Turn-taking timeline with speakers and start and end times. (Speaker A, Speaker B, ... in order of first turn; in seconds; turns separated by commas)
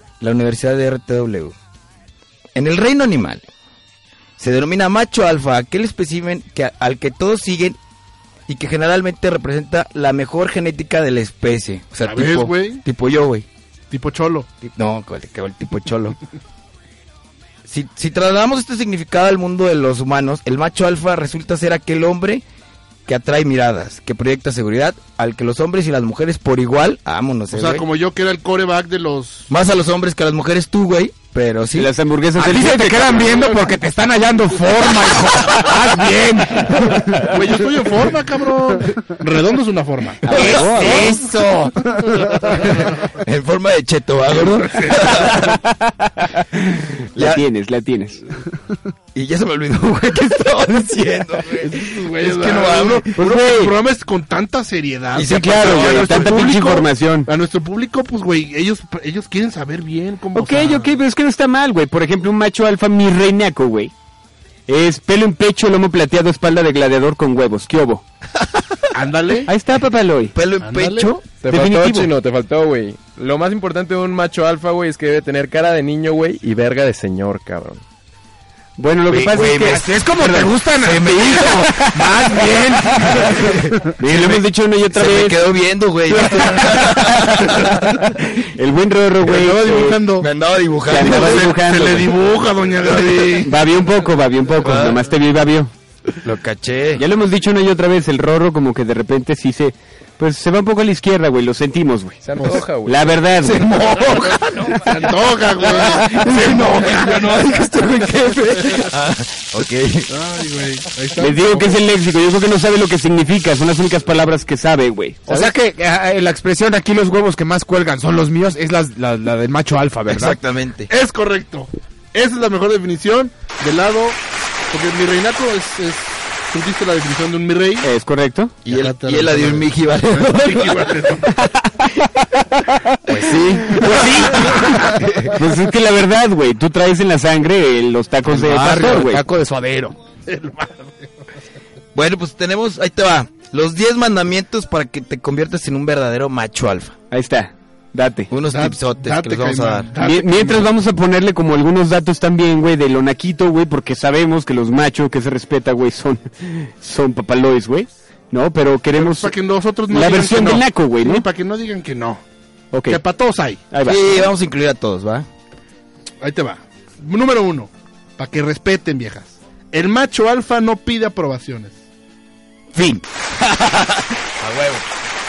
Speaker A: 0.2-1.5, Speaker A: 2.6-3.4, Speaker A: 4.4-7.8, Speaker A: 8.5-13.5, Speaker B: 12.0-12.8, Speaker B: 13.9-14.5, Speaker A: 14.6-16.2, Speaker A: 17.7-22.4, Speaker A: 23.1-27.9, Speaker B: 27.5-29.5, Speaker A: 29.5-31.9, Speaker C: 31.8-33.4, Speaker D: 32.4-37.4, Speaker B: 37.3-40.2, Speaker C: 40.2-41.1, Speaker D: 40.3-41.9, Speaker B: 41.9-42.9, Speaker A: 42.8-45.5, Speaker B: 44.5-45.4, Speaker C: 45.4-46.6, Speaker C: 47.1-48.2, Speaker A: 47.2-47.4, Speaker A: 49.1-53.1, Speaker B: 51.6-61.0, Speaker C: 53.2-53.7, Speaker A: 55.1-56.5, Speaker C: 55.3-57.3, Speaker C: 60.3-63.9, Speaker C: 64.7-68.0, Speaker B: 68.9-69.5, Speaker C: 69.5-70.3, Speaker A: 70.3-71.2, Speaker B: 70.6-71.1, Speaker E: 71.4-77.8, Speaker C: 71.5-72.1, Speaker C: 78.8-80.6, Speaker A: 79.1-79.9, Speaker D: 79.6-83.6, Speaker A: 80.8-81.8, Speaker C: 81.4-82.0, Speaker A: 83.0-87.9, Speaker C: 84.0-85.4, Speaker C: 86.3-90.0, Speaker B: 89.2-90.3, Speaker A: 89.9-91.5, Speaker C: 90.9-92.2, Speaker B: 90.9-93.5, Speaker C: 93.4-95.7, Speaker A: 94.7-94.9, Speaker A: 96.2-97.0, Speaker C: 97.0-102.2, Speaker E: 102.2-103.3, Speaker C: 102.8-104.2, Speaker A: 103.4-104.9, Speaker B: 104.7-108.9, Speaker A: 106.4-107.5, Speaker A: 108.6-110.1, Speaker B: 110.1-111.8, Speaker C: 111.2-115.5, Speaker D: 115.3-120.4, Speaker A: 120.1-120.9, Speaker B: 120.9-127.9, Speaker C: 127.8-128.6, Speaker A: 128.7-131.1, Speaker B: 128.7-131.4, Speaker C: 133.1-139.2, Speaker A: 135.0-135.3, Speaker D: 138.3-139.9, Speaker A: 138.4-139.1, Speaker B: 140.3-141.1, Speaker A: 141.9-146.9, Speaker C: 147.1-148.3, Speaker A: 148.3-149.9, Speaker B: 148.5-150.7, Speaker C: 150.0-159.3, Speaker B: 159.0-162.2, Speaker C: 159.9-161.2, Speaker C: 162.7-163.0, Speaker B: 162.9-163.6, Speaker C: 163.7-164.3, Speaker A: 163.8-165.3, Speaker B: 166.2-171.8, Speaker A: 172.8-174.8